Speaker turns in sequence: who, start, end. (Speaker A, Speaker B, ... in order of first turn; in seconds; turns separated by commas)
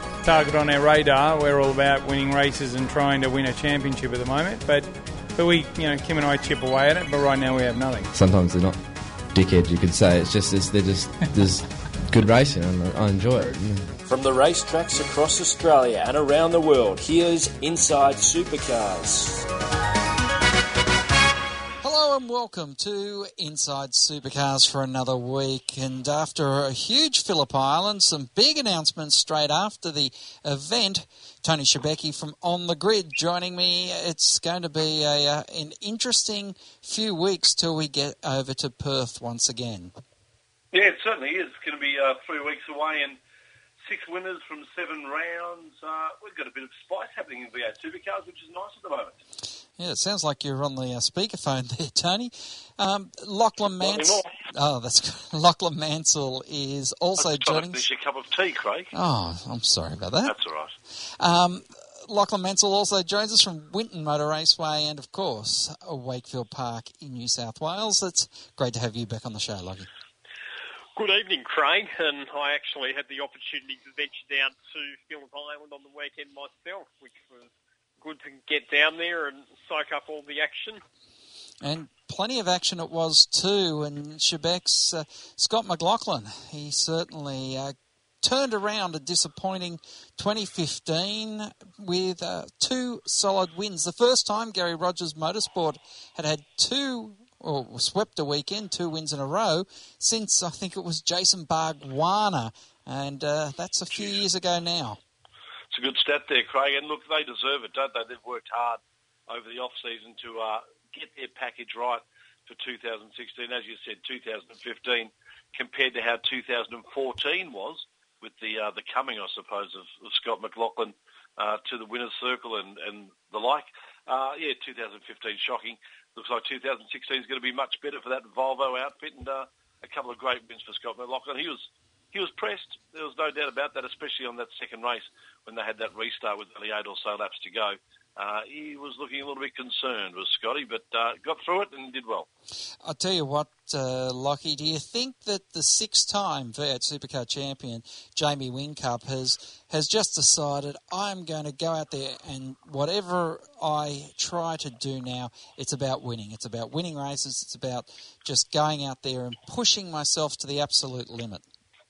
Speaker A: 0.2-8.1, Speaker B: 8.1-13.9, Speaker C: 14.0-19.4, Speaker D: 21.8-39.9, Speaker E: 40.7-43.2, Speaker E: 43.8-49.2, Speaker D: 49.8-57.8, Speaker E: 53.7-54.2, Speaker E: 57.2-58.9, Speaker D: 58.9-60.3, Speaker E: 60.2-60.7, Speaker D: 60.9-69.9, Speaker F: 71.0-80.8, Speaker D: 81.6-105.0, Speaker E: 103.9-104.2, Speaker E: 105.7-142.3, Speaker D: 142.8-161.4